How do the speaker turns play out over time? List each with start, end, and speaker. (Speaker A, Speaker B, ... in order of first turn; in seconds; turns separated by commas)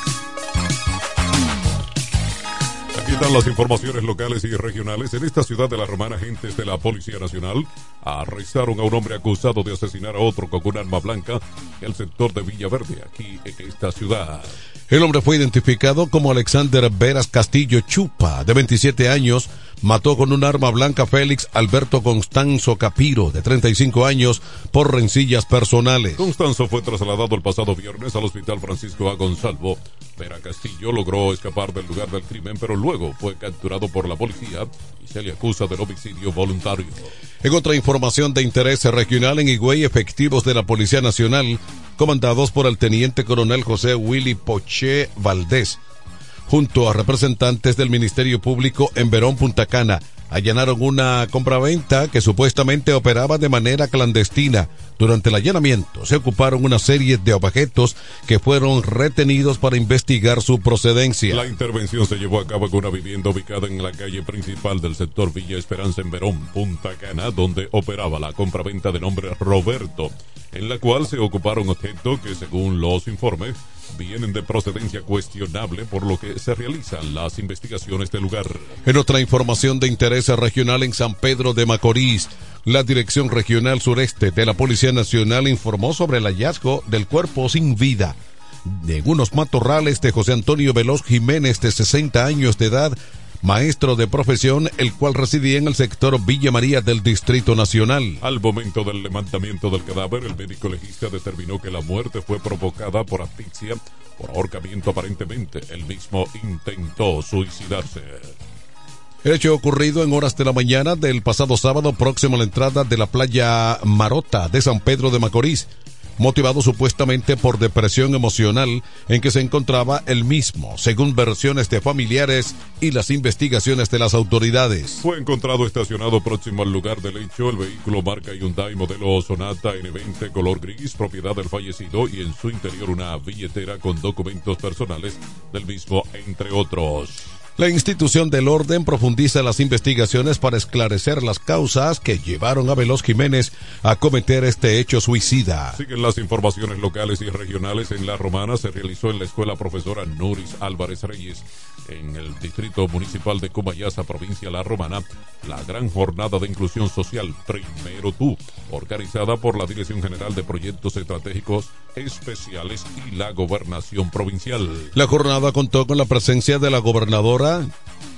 Speaker A: 2.9-14.5, Speaker B: 14.9-26.2, Speaker A: 26.2-37.1, Speaker B: 37.4-45.8, Speaker B: 46.5-61.5, Speaker A: 61.3-78.7, Speaker B: 78.8-98.2, Speaker A: 98.2-108.3, Speaker B: 109.2-125.0, Speaker A: 125.0-137.3, Speaker B: 137.6-145.8, Speaker A: 145.8-164.9, Speaker B: 164.9-167.7